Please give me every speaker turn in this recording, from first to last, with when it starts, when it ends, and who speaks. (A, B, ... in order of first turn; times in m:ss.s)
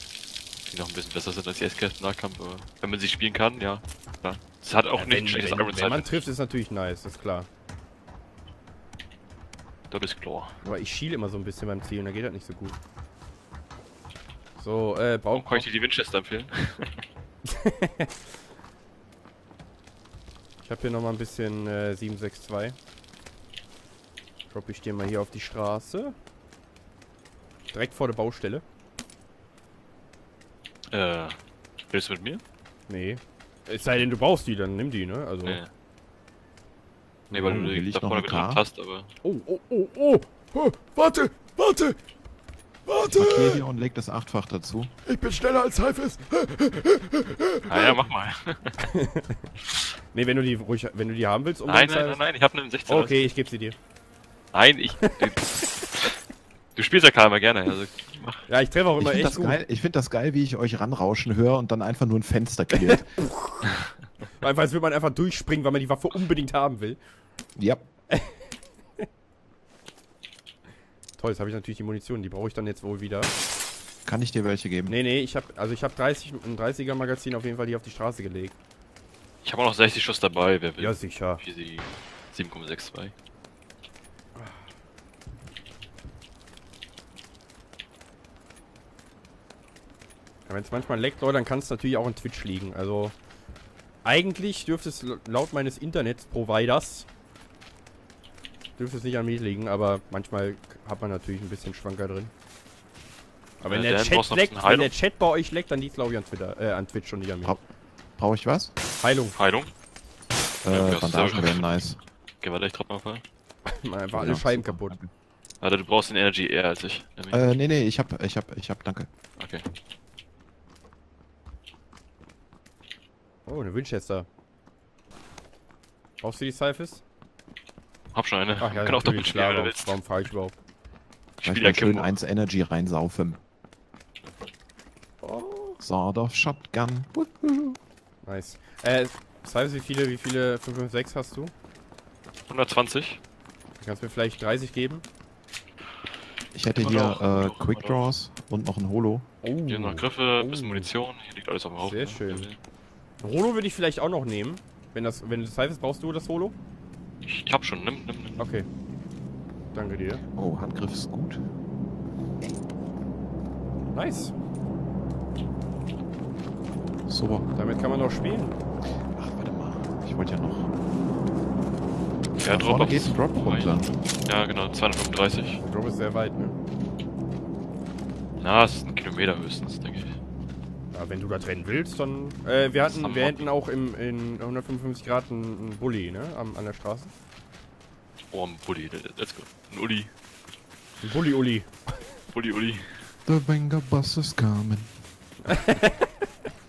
0:00.7-0:06.2 A
0:05.0-0:07.5 B
0:09.9-0:10.6 A
0:10.6-0:12.8 B
0:14.6-0:15.7 B
0:15.3-0:17.0 A
0:17.5-0:18.1 B
0:20.6-0:22.8 B
0:24.5-0:26.2 B
0:27.7-0:28.6 B
0:30.9-0:31.4 A
0:31.9-0:32.4 A
0:32.9-0:35.6 B
0:35.4-0:35.7 A
0:37.3-0:37.7 B
0:37.3-0:39.1 A
0:37.5-0:38.6 C
0:39.2-0:42.0 B
0:42.9-0:43.6 B
0:43.0-0:44.9 C
0:45.1-0:47.4 B
0:47.7-0:48.8 A
0:48.8-0:49.5 B
0:50.1-0:52.2 B
0:51.7-0:53.2 A
0:52.9-0:53.8 B
0:54.5-0:56.1 A
0:56.8-0:58.5 A
0:58.5-0:59.6 B
0:59.0-1:03.1 C
1:02.7-1:03.7 B
1:04.4-1:07.0 B
1:07.6-1:07.9 C
1:08.1-1:08.4 B
1:11.2-1:13.3 B
1:14.0-1:15.0 C
1:14.9-1:18.5 B
1:19.4-1:23.1 A
1:20.8-1:21.4 B
1:30.5-1:33.2 B
1:34.0-1:37.1 B
1:38.8-1:42.3 B
1:43.6-1:47.6 B
1:43.7-1:44.9 A
1:48.2-1:48.7 C
1:49.0-1:49.4 B
1:49.4-1:49.7 A
1:50.6-1:52.0 C
1:50.7-1:51.6 A
1:52.4-1:53.2 A
1:53.7-1:55.0 B
1:54.1-1:55.1 C
1:55.6-1:57.5 A
1:57.3-1:59.1 C
1:59.4-1:59.6 A
2:03.5-2:04.3 B
2:06.2-2:07.0 B
2:08.1-2:09.9 A
2:08.6-2:10.5 B
2:11.4-2:12.1 A
2:11.4-2:13.4 C
2:15.2-2:15.8 B
2:15.8-2:17.8 C
2:18.2-2:21.5 B
2:22.5-2:23.2 A
2:23.8-2:25.0 B
2:26.5-2:29.3 C
2:26.8-2:28.0 A
2:29.4-2:30.9 B
2:29.7-2:32.6 A
2:31.8-2:32.5 B
2:33.2-2:36.6 B
2:37.3-2:38.4 A
2:38.4-2:38.7 B
2:39.7-2:40.2 B
2:40.3-2:41.4 C
2:43.9-2:44.3 B
2:47.1-2:47.5 C
2:47.6-2:48.5 B
2:49.1-2:50.7 C
2:52.4-2:55.6 A
2:52.4-2:53.9 C
2:55.6-2:56.6 B
2:58.4-3:00.2 A
3:00.9-3:07.1 B
3:02.9-3:03.5 A
3:08.3-3:10.1 A
3:11.0-3:11.7 B
3:12.3-3:13.1 A
3:13.3-3:15.0 C
3:15.4-3:16.1 B